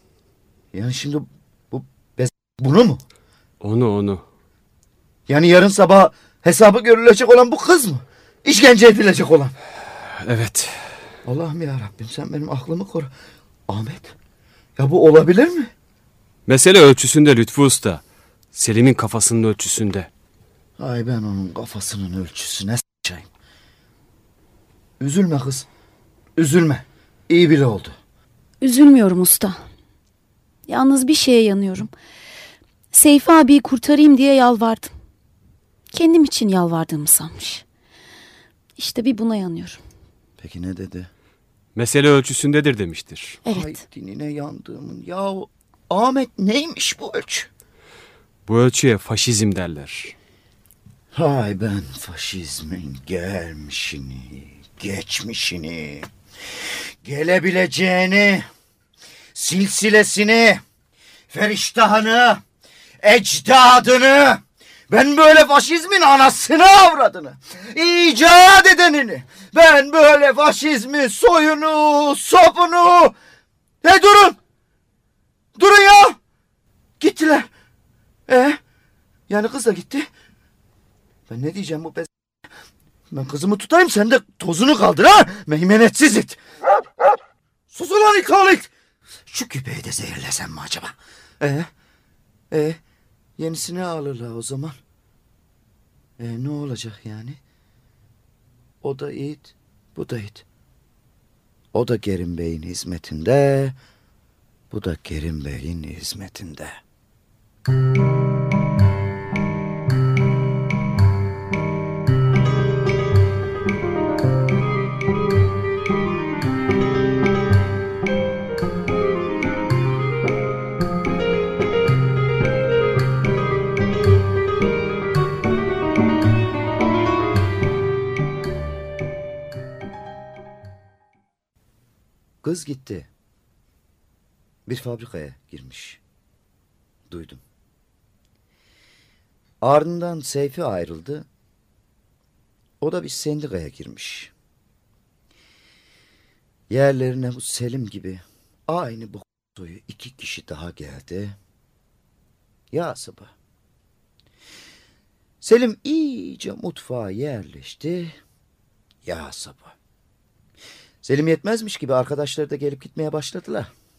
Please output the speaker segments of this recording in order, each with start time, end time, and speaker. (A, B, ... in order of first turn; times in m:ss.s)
0:00.7-0:03.0 A
0:03.6-0:04.2 B
0:05.3-0:09.5 A
0:10.2-0:10.8 B
0:11.2-0:13.1 A
0:13.7-0:14.1 A
0:14.8-0:15.7 A
0:16.5-0:18.0 B
0:18.5-0:20.1 B
0:20.8-0:23.3 A
0:25.0-0:25.7 A
0:26.4-0:27.9 A
0:28.6-0:29.6 C
0:30.7-0:31.9 C
0:32.9-0:34.9 C
0:35.9-0:37.6 C
0:38.8-0:39.8 C
0:40.4-0:41.1 A
0:41.8-0:43.4 B
0:43.4-0:43.8 C
0:43.5-0:47.5 A
0:48.5-0:50.1 B
0:51.1-0:56.1 A
0:57.0-0:58.4 A
0:59.3-1:00.6 A
1:01.3-1:02.4 A
1:03.0-1:13.1 A
1:13.8-1:14.4 A
1:15.6-1:16.2 A
1:17.0-1:17.5 A
1:18.3-1:18.6 A
1:19.3-1:20.1 A
1:21.3-1:22.1 A
1:23.1-1:26.4 A
1:27.7-1:28.7 A
1:29.3-1:31.7 A
1:32.5-1:32.8 A
1:33.4-1:34.8 A
1:36.2-1:37.4 A
1:38.8-1:40.4 A
1:41.7-1:43.8 A
1:44.7-1:46.8 A
2:12.4-2:13.1 A
2:14.7-2:16.0 A
2:17.1-2:17.4 A
2:19.6-2:21.2 A
2:22.8-2:24.3 A
2:26.7-2:31.4 A
2:32.7-2:33.3 A
2:35.4-2:38.2 A
2:39.0-2:39.7 A
2:41.0-2:43.7 A